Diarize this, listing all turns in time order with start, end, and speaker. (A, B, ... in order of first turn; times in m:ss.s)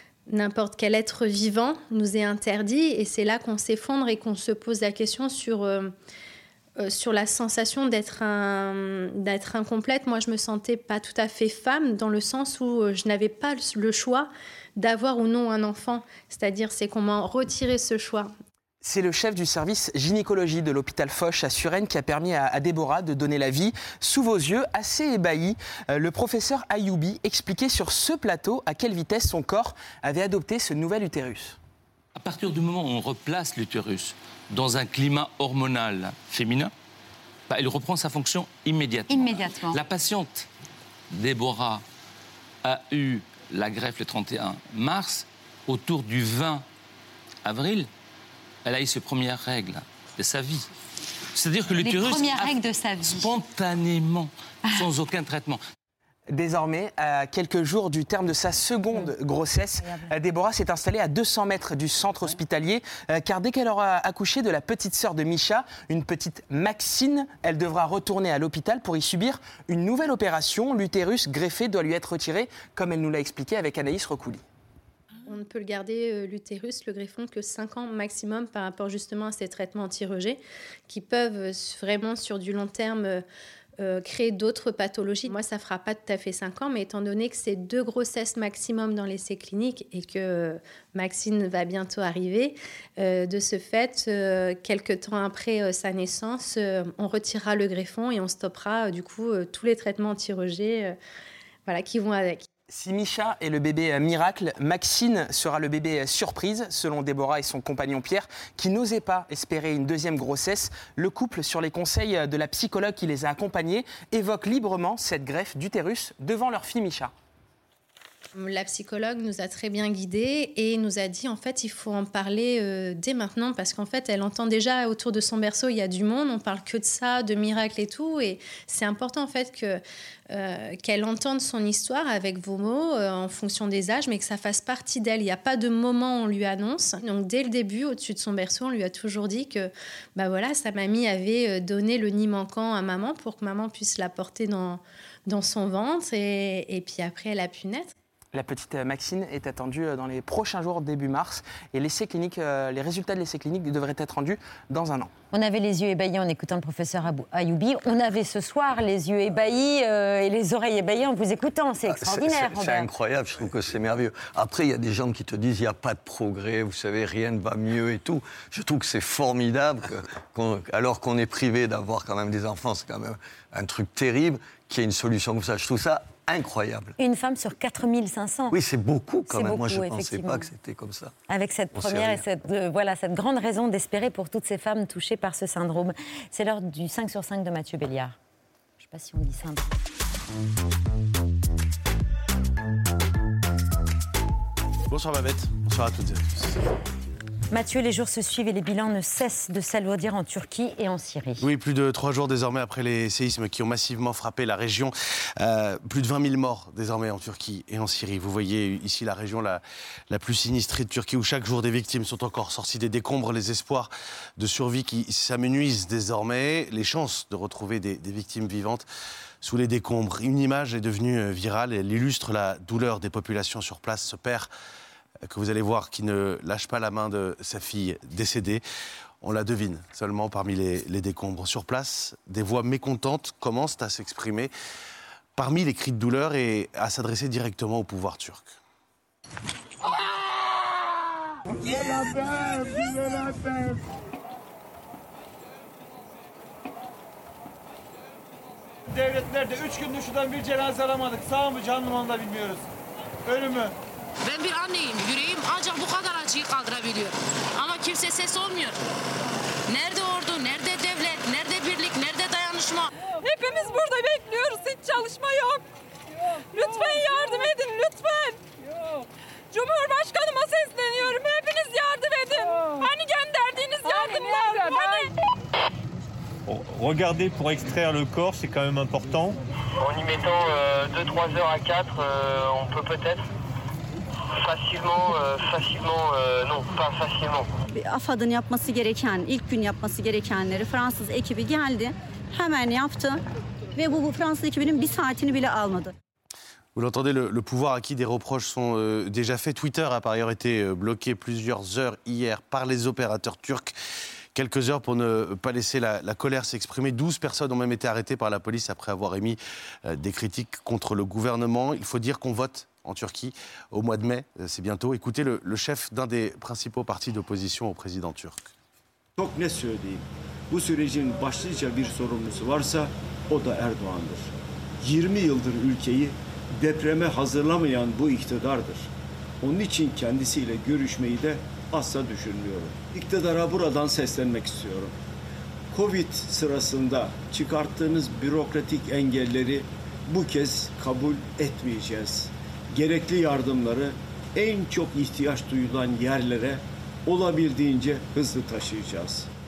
0:00.3-0:05.9 A
0:06.8-0:18.3 A
0:18.8-0:31.6 B
0:32.1-0:36.7 C
0:37.5-0:40.5 C
0:39.1-0:39.8 D
0:41.1-0:41.8 C
0:42.6-0:46.6 C
0:47.4-0:47.9 C
0:48.6-0:50.7 C
0:51.3-0:55.6 C
0:51.8-0:53.3 D
0:56.3-1:14.4 B
1:15.2-1:23.2 A
1:23.8-1:41.0 A
1:41.6-1:42.5 A
1:42.7-1:57.1 B
1:58.3-2:27.9 A
2:28.3-2:35.1 B
2:35.3-2:42.9 D
2:41.9-2:56.9 E
2:57.0-2:58.6 D
2:58.5-3:01.1 E
2:59.3-3:00.5 D
3:01.3-3:08.2 D
3:01.7-3:02.2 E
3:08.8-3:09.6 D
3:14.9-3:16.6 F
3:17.5-3:21.5 D
3:21.4-3:38.8 F
3:39.4-3:44.5 F
3:45.2-3:48.6 F
3:49.2-3:54.5 F
3:55.4-3:58.5 F
4:14.2-4:18.8 G
4:19.7-4:22.9 G
4:23.2-4:25.6 H
4:26.5-4:28.4 H
4:29.5-4:35.1 H
4:36.5-4:39.4 I
4:39.8-4:43.2 J
4:44.4-4:47.5 J
4:47.7-4:53.2 K
4:53.7-4:55.9 K
4:56.7-5:03.7 F
5:04.3-5:18.5 F
5:19.2-5:24.3 L
5:24.8-5:28.9 L
5:29.4-5:34.9 L
5:35.7-5:49.3 L